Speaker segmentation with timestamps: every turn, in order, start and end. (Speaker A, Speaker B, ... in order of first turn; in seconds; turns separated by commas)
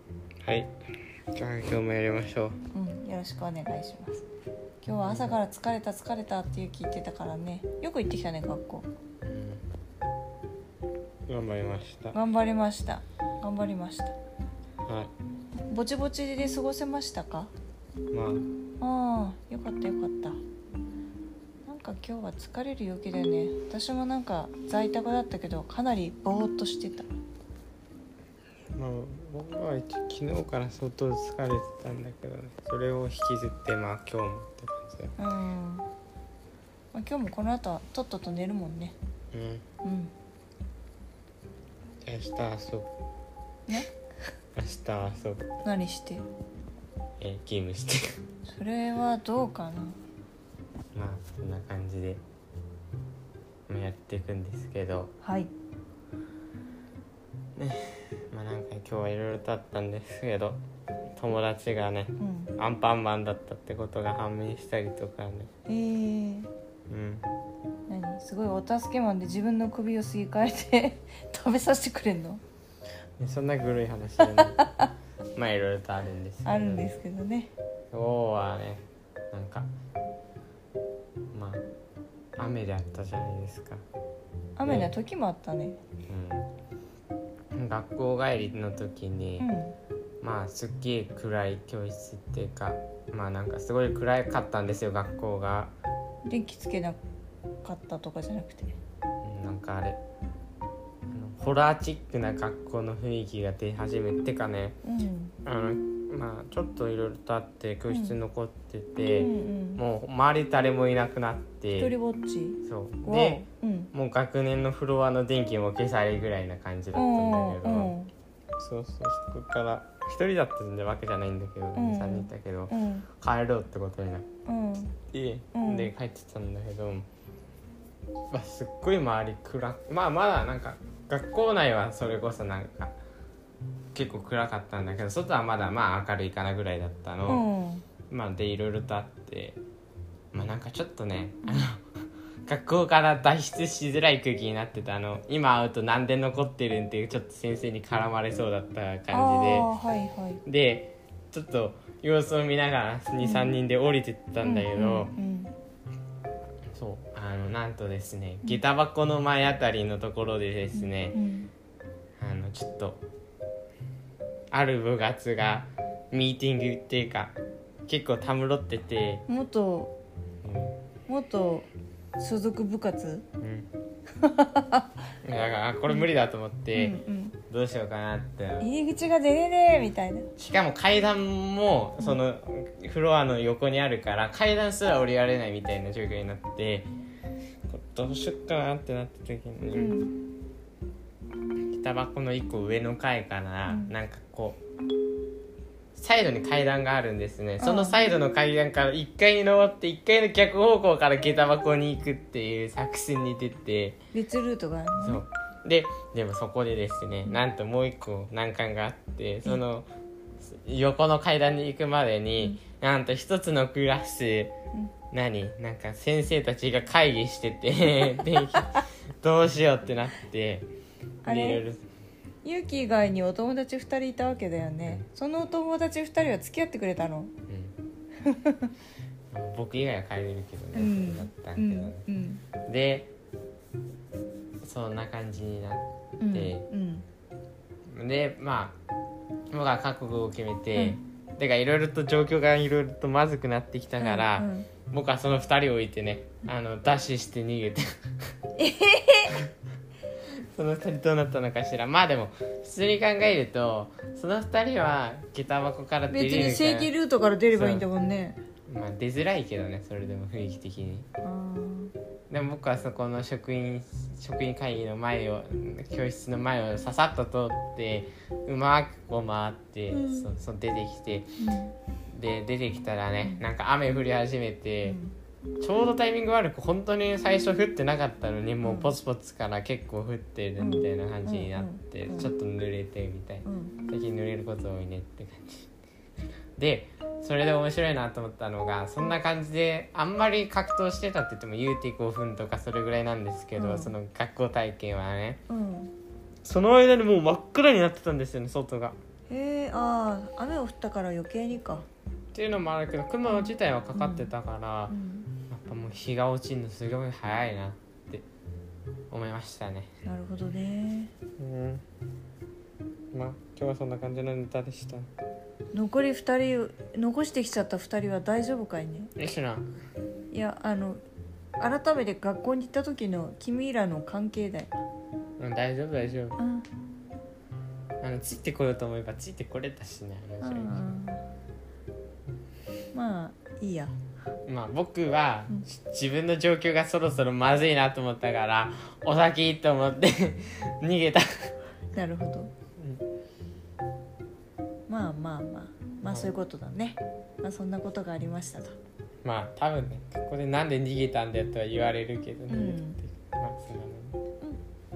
Speaker A: 0.4-0.7, Speaker A: 1.3-2.6, Speaker B: 2.7-4.2, Speaker B: 4.8-8.9, Speaker A: 5.0-5.4, Speaker A: 9.2-9.6, Speaker A: 11.3-12.2, Speaker B: 12.1-14.2, Speaker A: 14.8-15.1, Speaker B: 15.7-17.5, Speaker A: 18.1-18.5, Speaker B: 18.8-20.4, Speaker B: 21.6-27.1, Speaker A: 28.7-35.1, Speaker B: 35.2-35.9, Speaker B: 36.9-38.9, Speaker A: 39.3-39.6, Speaker B: 39.8-40.1, Speaker A: 42.0-42.9, Speaker A: 44.5-45.5, Speaker B: 45.6-46.2, Speaker A: 47.2-48.2, Speaker B: 48.5-50.0, Speaker A: 50.9-52.2, Speaker A: 53.7-55.1, Speaker B: 55.2-55.5, Speaker A: 57.5-60.6, Speaker A: 61.2-65.5, Speaker B: 62.2-62.5, Speaker B: 65.7-66.5, Speaker A: 66.9-67.3, Speaker B: 67.9-72.4, Speaker A: 73.2-74.7, Speaker B: 74.3-74.9, Speaker A: 75.3-76.9, Speaker B: 76.4-77.5, Speaker A: 77.9-79.7, Speaker A: 81.3-81.6, Speaker A: 82.4-83.8, Speaker B: 84.5-85.8, Speaker A: 84.6-84.9, Speaker A: 86.1-86.5, Speaker A: 87.5-89.5, Speaker B: 89.4-89.7, Speaker A: 90.2-95.7, Speaker B: 96.2-97.0, Speaker B: 97.6-98.8, Speaker A: 99.2-100.0, Speaker A: 101.1-104.8, Speaker B: 104.8-105.3, Speaker A: 105.4-111.9, Speaker B: 107.9-108.2, Speaker B: 109.2-109.8, Speaker B: 111.8-113.9, Speaker A: 112.6-117.9, Speaker B: 116.9-118.1, Speaker A: 118.6-124.3, Speaker B: 121.7-123.1, Speaker B: 124.5-125.0, Speaker A: 125.1-127.1, Speaker B: 125.5-125.9, Speaker A: 128.3-132.9, Speaker A: 133.9-137.4, Speaker B: 137.3-137.8, Speaker A: 138.1-139.6, Speaker A: 140.3-141.8, Speaker A: 142.4-149.7, Speaker B: 149.1-150.4, Speaker A: 150.4-155.1, Speaker B: 153.2-153.5, Speaker B: 154.4-155.5, Speaker A: 156.7-161.2, Speaker B: 160.7-161.5, Speaker A: 162.2-163.0, Speaker A: 164.5-167.3, Speaker A: 167.9-169.2, Speaker B: 169.3-169.9, Speaker A: 170.4-170.8, Speaker B: 171.1-173.2, Speaker A: 173.4-173.7, Speaker B: 174.2-174.9, Speaker A: 175.2-177.0, Speaker B: 176.7-177.4, Speaker A: 177.5-178.7, Speaker B: 178.6-180.3, Speaker A: 180.4-186.9, Speaker A: 187.7-190.0, Speaker B: 189.7-190.1, Speaker A: 191.7-194.6, Speaker B: 193.7-193.9, Speaker A: 195.9-204.0, Speaker B: 197.6-198.0, Speaker B: 204.1-205.2, Speaker A: 204.9-209.9, Speaker A: 210.4-214.5, Speaker A: 215.1-220.7, Speaker B: 221.2-221.6, Speaker A: 221.2-221.8, Speaker B: 222.4-227.3, Speaker A: 227.5-227.7, Speaker B: 228.2-228.7, Speaker A: 229.3-232.0, Speaker B: 230.7-232.4, Speaker A: 232.6-233.1, Speaker A: 234.6-236.7, Speaker B: 236.2-237.0, Speaker A: 237.9-238.8, Speaker A: 239.5-247.8, Speaker B: 244.0-244.7, Speaker B: 248.6-249.3, Speaker A: 250.3-256.9, Speaker B: 256.1-258.4, Speaker A: 257.5-257.9, Speaker A: 258.7-261.1, Speaker B: 261.2-261.9, Speaker A: 262.3-271.3, Speaker B: 269.9-270.3, Speaker B: 271.4-271.7, Speaker A: 272.1-275.0, Speaker B: 274.8-275.1, Speaker A: 275.6-285.7, Speaker B: 278.6-278.9, Speaker B: 280.6-282.3, Speaker B: 283.4-283.8, Speaker A: 286.6-295.4, Speaker B: 293.6-293.9, Speaker B: 295.5-295.9, Speaker A: 296.4-299.0, Speaker B: 299.3-301.9, Speaker A: 302.3-304.9, Speaker B: 304.0-304.3, Speaker B: 304.9-305.3, Speaker A: 305.5-308.2, Speaker A: 309.1-309.9, Speaker B: 310.0-311.1, Speaker A: 311.4-311.8, Speaker A: 313.1-315.1, Speaker B: 315.7-319.1, Speaker A: 319.1-319.6, Speaker B: 320.3-321.0, Speaker B: 321.6-324.7, Speaker A: 325.4-326.4, Speaker B: 326.4-326.6, Speaker A: 328.0-330.9, Speaker B: 330.4-331.2, Speaker B: 332.9-333.9, Speaker A: 334.4-341.5, Speaker B: 341.9-342.5, Speaker B: 344.9-348.7, Speaker A: 346.0-346.3, Speaker A: 349.2-354.2, Speaker B: 352.5-353.0